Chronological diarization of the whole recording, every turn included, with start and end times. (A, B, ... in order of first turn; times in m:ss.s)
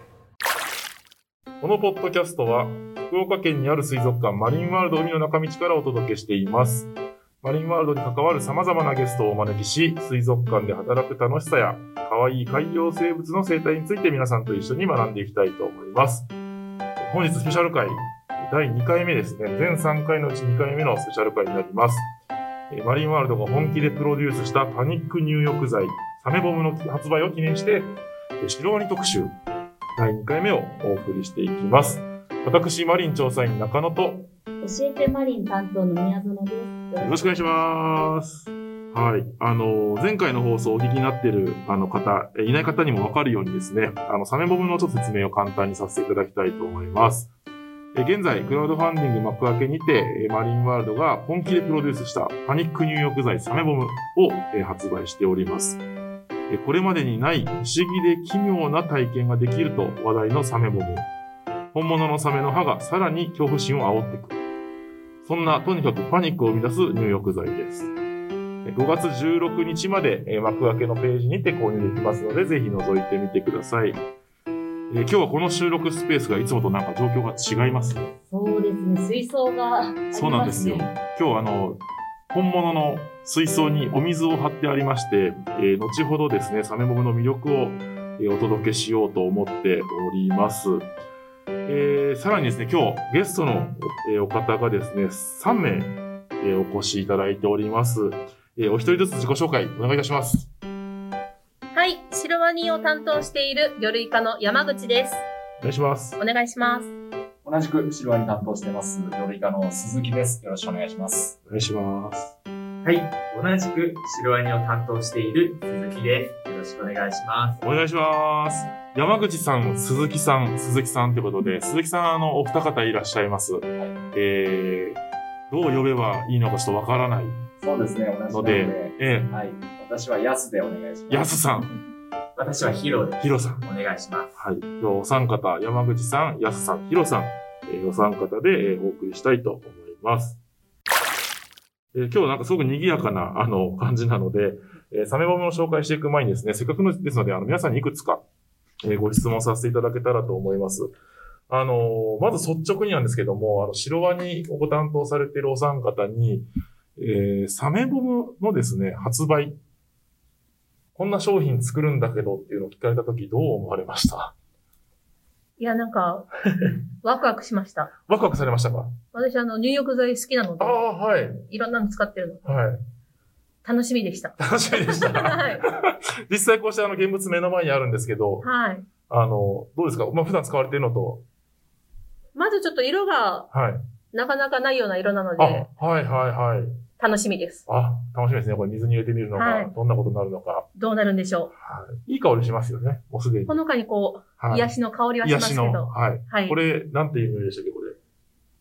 0:01.6-0:06.9 A
0:07.4-0:16.3 A
0:17.0-0:22.1 A
0:22.7-0:29.3 A
0:30.0-0:34.3 A
0:34.6-0:37.4 B
0:37.0-0:47.3 A
0:47.9-0:55.8 A
0:56.5-1:01.1 A
1:01.7-1:04.4 A
1:05.2-1:07.9 A
1:08.6-1:14.0 A
1:14.9-1:18.1 A
1:18.1-1:20.9 B
1:20.1-1:30.9 A
1:31.6-1:40.5 A
1:41.7-1:45.2 C
1:45.6-1:46.2 A
1:46.2-1:46.9 C
1:47.4-1:51.4 D
1:51.5-1:52.3 A
1:52.8-1:57.6 E
1:57.6-2:05.0 A
2:05.5-2:07.4 A
2:07.6-2:11.3 D
2:08.3-2:09.3 A
2:11.1-2:11.7 A
2:12.4-2:14.4 E
2:13.2-2:13.6 A
2:14.4-2:20.4 A
2:21.9-2:28.2 A
2:28.8-2:30.9 A
2:31.5-2:39.6 A
2:41.0-2:44.3 A
2:45.6-2:46.2 C
2:46.5-2:46.8 A
2:47.0-2:47.9 C
2:48.1-2:49.0 A
2:49.1-2:50.8 C
2:50.6-2:51.4 A
2:51.5-2:52.6 C
2:52.4-2:52.8 A
2:53.6-2:54.4 C
2:54.4-2:58.5 A
2:55.0-2:55.6 C
2:58.4-2:58.8 C
2:59.1-3:01.2 A
3:02.3-3:03.5 C
3:03.5-3:03.8 A
3:04.1-3:05.7 C
3:05.4-3:06.8 A
3:07.0-3:07.6 C
3:07.7-3:10.7 A
3:09.3-3:09.7 C
3:10.7-3:11.5 C
3:11.6-3:13.6 A
3:13.5-3:16.6 C
3:14.4-3:18.0 A